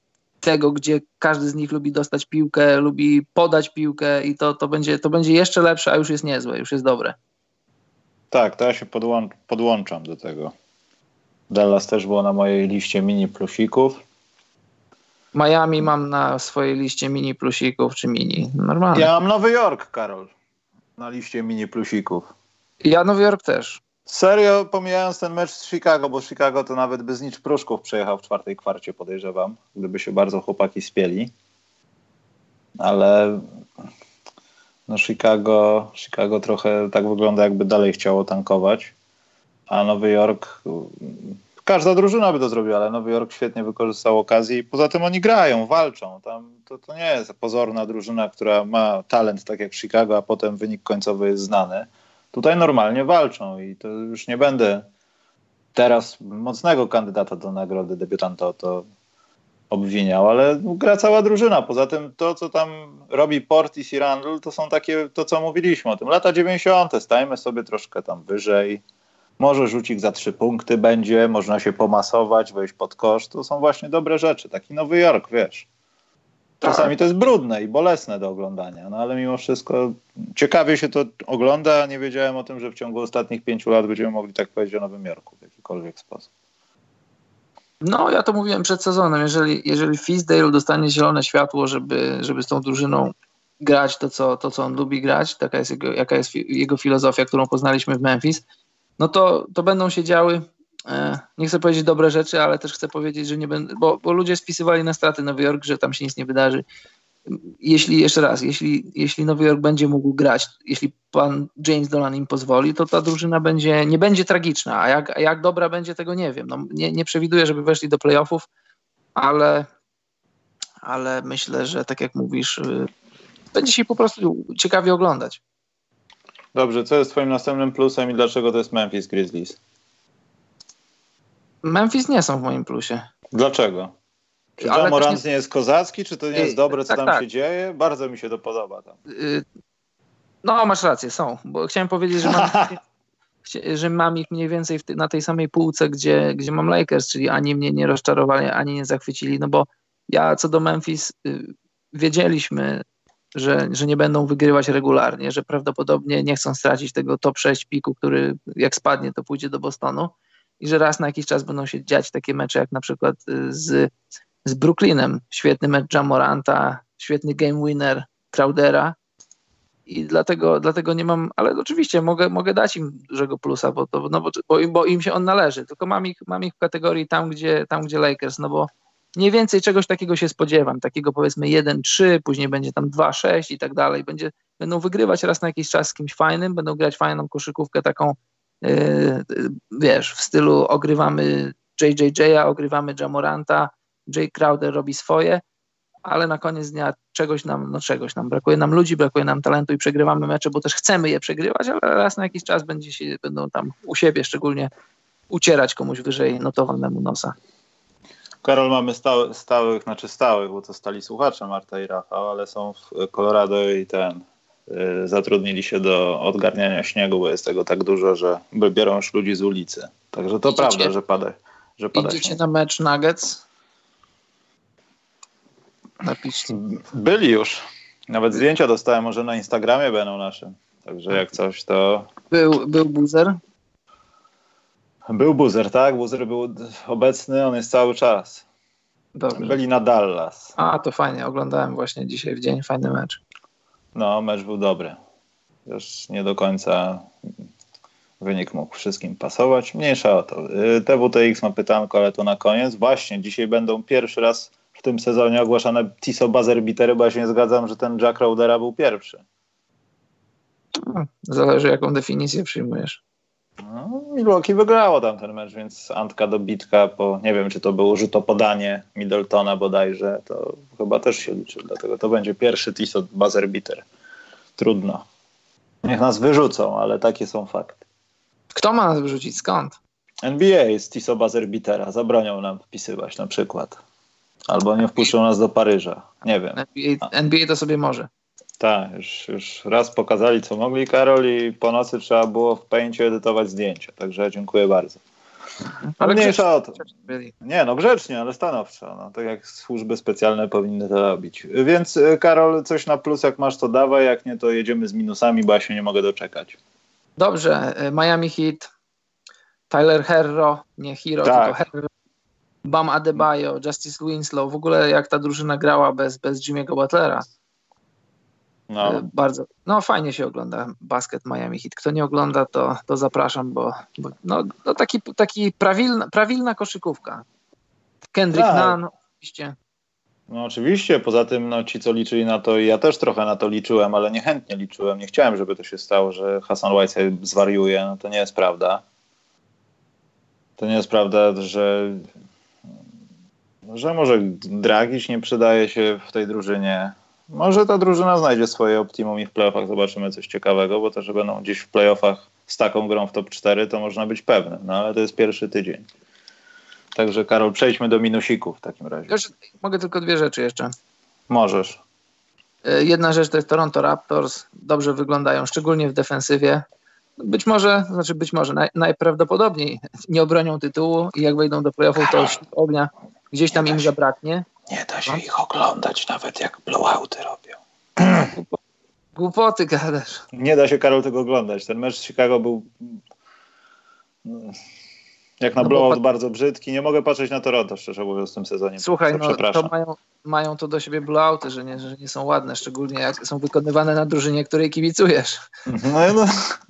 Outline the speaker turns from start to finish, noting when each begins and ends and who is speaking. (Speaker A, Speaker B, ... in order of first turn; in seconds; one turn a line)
Speaker A: 0.4-7.2
Speaker B: 8.3-10.5
Speaker B: 11.5-14.0
Speaker A: 15.3-19.1
Speaker B: 18.9-20.3
Speaker B: 21.0-22.3
Speaker A: 22.8-23.8
Speaker B: 24.1-31.3
Speaker B: 32.8-33.4
Speaker B: 34.9-38.9
Speaker B: 39.7-54.9
Speaker B: 55.8-58.9
Speaker B: 59.7-68.8
Speaker B: 69.4-75.7
Speaker A: 76.6-76.9
Speaker B: 76.6-86.3
Speaker A: 87.8-98.4
Speaker A: 99.0-106.6
Speaker A: 107.3-118.5
Speaker A: 119.2-119.7
Speaker A: 120.8-122.9
Speaker A: 123.5-125.4
Speaker B: 126.5-129.6
Speaker A: 131.6-133.1
Speaker B: 133.3-133.9
Speaker B: 134.6-138.9
Speaker A: 134.6-135.2
Speaker A: 136.4-137.2
Speaker A: 139.1-139.4
Speaker A: 140.4-142.8
Speaker B: 142.2-142.8
Speaker A: 143.4-152.8
Speaker A: 153.3-163.9
Speaker A: 164.4-168.9
Speaker A: 169.9-195.4
Speaker A: 196.1-204.7
Speaker A: 205.3-207.3
Speaker B: 208.4-222.4
Speaker A: 220.5-220.9
Speaker A: 221.9-223.4
Speaker A: 226.0-226.5
Speaker B: 226.5-232.1
Speaker A: 232.3-233.4
Speaker B: 235.1-238.4
Speaker A: 239.2-239.6
Speaker B: 239.3-240.6
Speaker A: 240.6-243.2
Speaker B: 243.9-245.0
Speaker B: 245.7-247.1
Speaker B: 248.2-259.2
Speaker A: 260.8-263.0
Speaker B: 263.6-273.9
Speaker B: 274.6-275.0
Speaker B: 275.8-277.8
Speaker A: 278.6-279.8
Speaker B: 280.2-283.8
Speaker B: 284.5-286.6
Speaker A: 286.6-288.1
Speaker B: 288.6-295.0
Speaker A: 295.9-297.3
Speaker B: 296.0-296.9
Speaker B: 297.4-306.6
Speaker A: 307.2-308.7
Speaker A: 309.7-311.9
Speaker B: 311.2-311.6
Speaker A: 312.6-317.2
Speaker B: 318.7-319.0
Speaker A: 318.8-327.2
Speaker A: 328.1-329.6
Speaker B: 328.3-328.8
Speaker B: 330.3-338.8
Speaker B: 340.6-342.1
Speaker B: 343.7-355.9
Speaker B: 356.9-359.2
Speaker A: 359.1-360.7
Speaker B: 361.3-361.8
Speaker A: 362.6-366.6
Speaker A: 367.2-374.5
Speaker B: 372.0-372.4
Speaker B: 373.5-373.9
Speaker B: 374.7-378.3
Speaker A: 378.3-378.6
Speaker A: 379.2-380.2
Speaker B: 380.3-383.0
Speaker B: 384.2-384.6
Speaker B: 385.4-389.7
Speaker A: 385.6-386.0
Speaker A: 388.8-395.4
Speaker B: 395.7-396.6